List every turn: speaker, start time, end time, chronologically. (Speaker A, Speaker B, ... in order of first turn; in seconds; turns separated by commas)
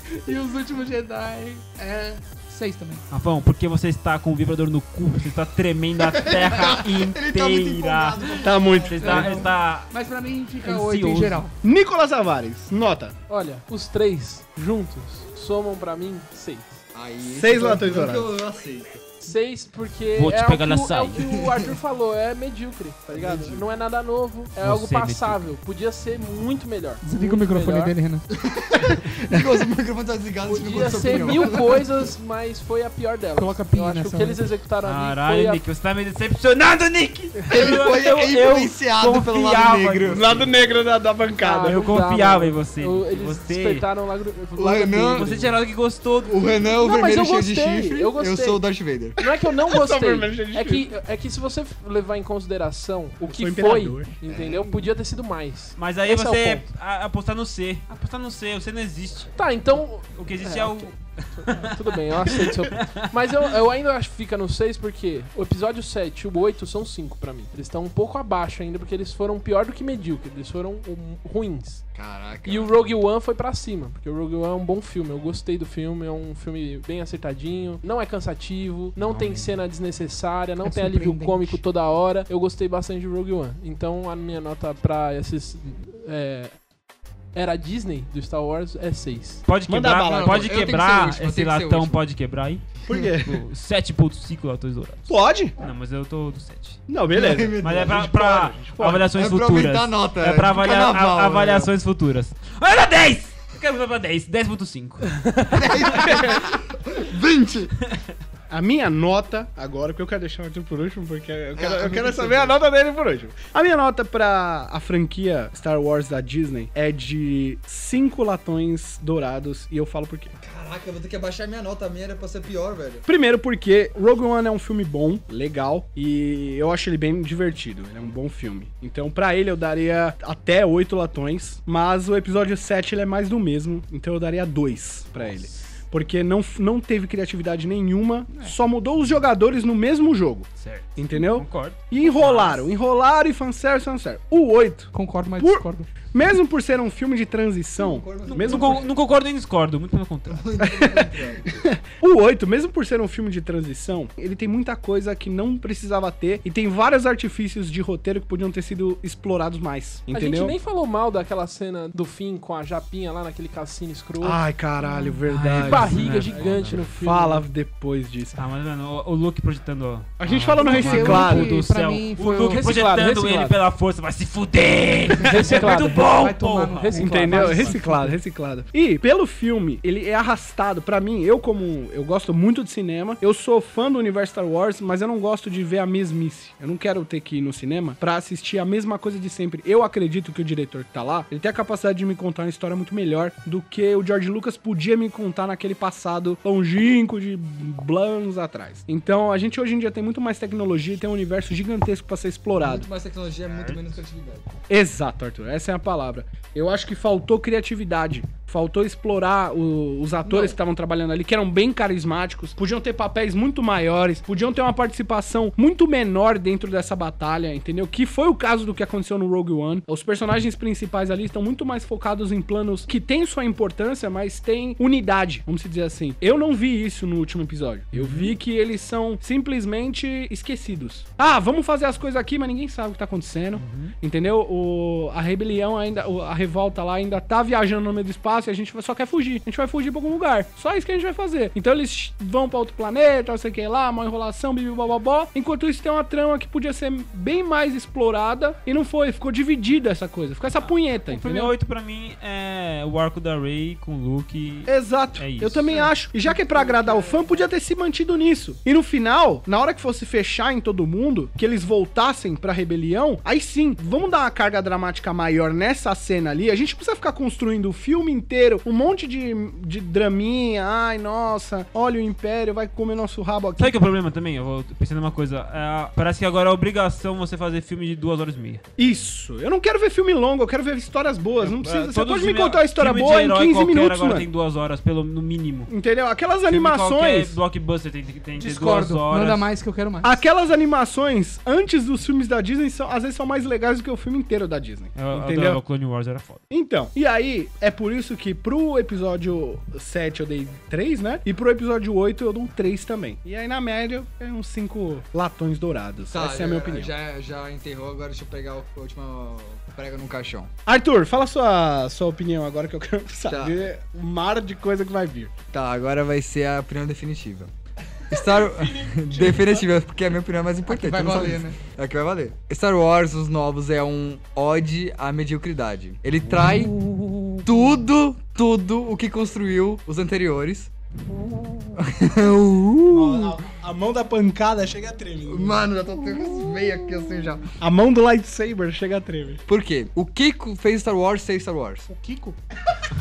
Speaker A: 0.3-3.0, Speaker B: 3.1-9.9, Speaker C: 6.1-9.5, Speaker D: 8.4-9.4, Speaker A: 9.0-11.5, Speaker B: 10.6-11.4, Speaker D: 11.6-13.2, Speaker E: 13.3-16.8, Speaker C: 16.9-19.0, Speaker D: 17.2-18.3, Speaker E: 19.2-28.0, Speaker B: 20.2-21.2, Speaker C: 21.2-21.5, Speaker C: 23.1-23.6, Speaker D: 23.1-23.5, Speaker B: 24.6-25.5, Speaker A: 27.0-28.3, Speaker C: 28.3-31.8, Speaker E: 30.5-35.6, Speaker A: 31.1-31.6, Speaker A: 33.4-34.5, Speaker B: 34.8-40.5, Speaker C: 37.5-40.4, Speaker D: 40.1-41.8, Speaker E: 41.4-45.5, Speaker B: 41.7-43.9, Speaker C: 44.5-45.5, Speaker B: 45.2-46.5, Speaker C: 46.3-49.2, Speaker E: 46.7-48.6, Speaker E: 49.2-56.7, Speaker D: 49.7-50.9, Speaker D: 53.2-54.3, Speaker C: 54.3-54.7, Speaker B: 55.8-59.5, Speaker E: 59.4-71.8, Speaker B: 60.1-63.1, Speaker C: 72.0-72.7, Speaker E: 72.4-86.6, Speaker B: 79.0-79.5, Speaker A: 80.6-81.6, Speaker E: 87.3-89.4, Speaker B: 89.5-92.7, Speaker D: 89.7-90.6, Speaker C: 90.0-92.0, Speaker D: 92.9-93.4, Speaker B: 93.2-96.9, Speaker D: 95.1-95.5, Speaker D: 96.9-99.1, Speaker C: 97.1-98.4, Speaker B: 97.6-105.2, Speaker C: 99.1-101.7, Speaker C: 105.5-107.8, Speaker B: 105.9-106.2, Speaker D: 106.0-106.4, Speaker D: 108.5-120.3, Speaker C: 111.6-112.6, Speaker C: 120.4-123.1, Speaker D: 123.1-148.9, Speaker B: 140.6-142.7, Speaker A: 144.9-145.9, Speaker C: 147.8-148.9, Speaker B: 148.3-150.5, Speaker C: 150.3-151.6, Speaker D: 150.6-160.6, Speaker E: 160.1-164.4, Speaker D: 164.2-168.4, Speaker A: 164.8-165.2, Speaker B: 165.3-166.9, Speaker E: 165.5-167.4, Speaker B: 168.4-176.9, Speaker D: 170.2-171.6, Speaker A: 170.5-172.7, Speaker E: 172.5-173.6, Speaker E: 175.3-176.1, Speaker A: 175.3-178.2, Speaker E: 176.7-177.8, Speaker D: 177.0-202.9, Speaker C: 202.6-204.5, Speaker B: 203.4-204.0, Speaker D: 204.7-251.6, Speaker C: 210.2-210.6, Speaker B: 227.9-228.3, Speaker B: 233.6-233.9, Speaker B: 251.1-255.8, Speaker D: 254.7-273.7, Speaker A: 256.3-257.3, Speaker B: 273.6-278.6, Speaker D: 278.8-284.3, Speaker B: 281.4-285.7, Speaker D: 285.7-287.4, Speaker B: 286.5-289.4, Speaker A: 288.4-290.2, Speaker D: 290.0-295.6, Speaker B: 295.0-296.4, Speaker D: 296.5-306.9, Speaker C: 306.1-310.5, Speaker D: 310.7-315.4, Speaker C: 313.3-313.6, Speaker C: 315.5-317.5, Speaker D: 318.1-319.7, Speaker C: 318.1-326.8, Speaker A: 320.7-321.6, Speaker A: 326.8-327.5, Speaker C: 327.4-330.7, Speaker C: 331.8-333.4, Speaker D: 332.9-335.7, Speaker C: 335.3-337.4, Speaker D: 337.6-339.4, Speaker C: 339.5-341.9, Speaker D: 341.9-342.4